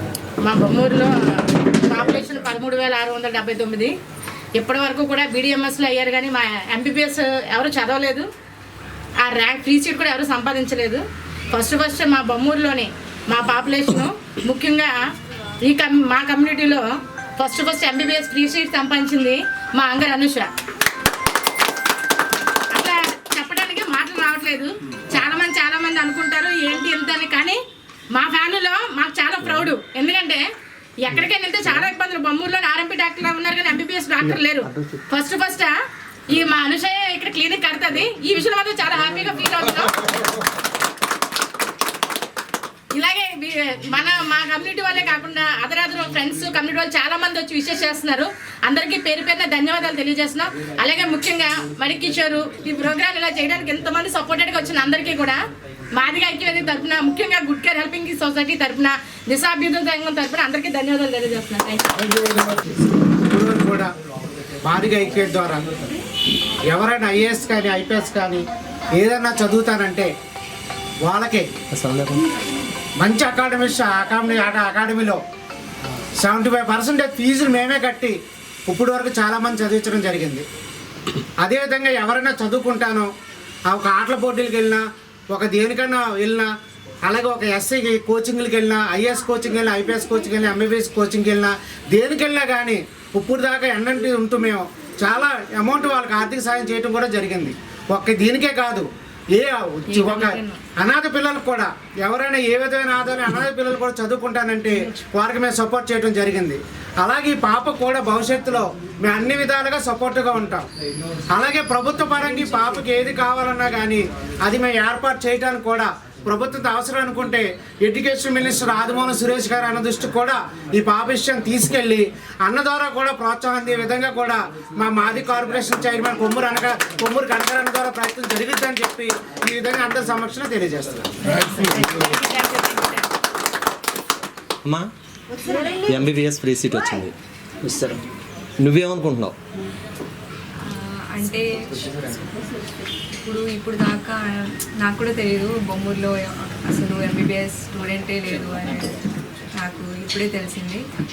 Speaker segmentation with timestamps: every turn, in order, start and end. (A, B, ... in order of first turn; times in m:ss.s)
0:00.4-0:03.9 A
0:04.6-0:08.3 A
0:09.2-0:15.0 A
0:15.6-0:20.5 A
0:22.7-0:27.6 A
0:28.2-0:30.4 A
0:29.4-0:29.7 B
0:31.0-0:35.7 A
0:34.2-0:35.0 B
0:36.3-0:40.1 A
0:42.9-0:55.4 A
0:56.0-1:02.1 A
1:02.2-1:02.7 C
1:03.3-1:03.9 C
1:04.6-1:05.9 C
1:06.7-1:08.5 C
1:09.0-1:10.1 C
1:11.0-1:11.5 C
1:11.7-1:12.2 B
1:13.0-1:15.2 C
1:16.2-1:18.2 C
1:18.7-1:20.4 C
1:21.4-1:23.1 C
1:23.7-1:26.5 C
1:27.0-1:50.7 C
1:39.9-1:40.6 A
1:51.3-2:11.6 C
2:11.5-2:13.0 A
2:14.7-2:14.9 B
2:15.8-2:17.1 B
2:18.6-2:19.4 B
2:20.6-2:21.5 D
2:23.2-2:29.0 D
2:29.6-2:30.8 D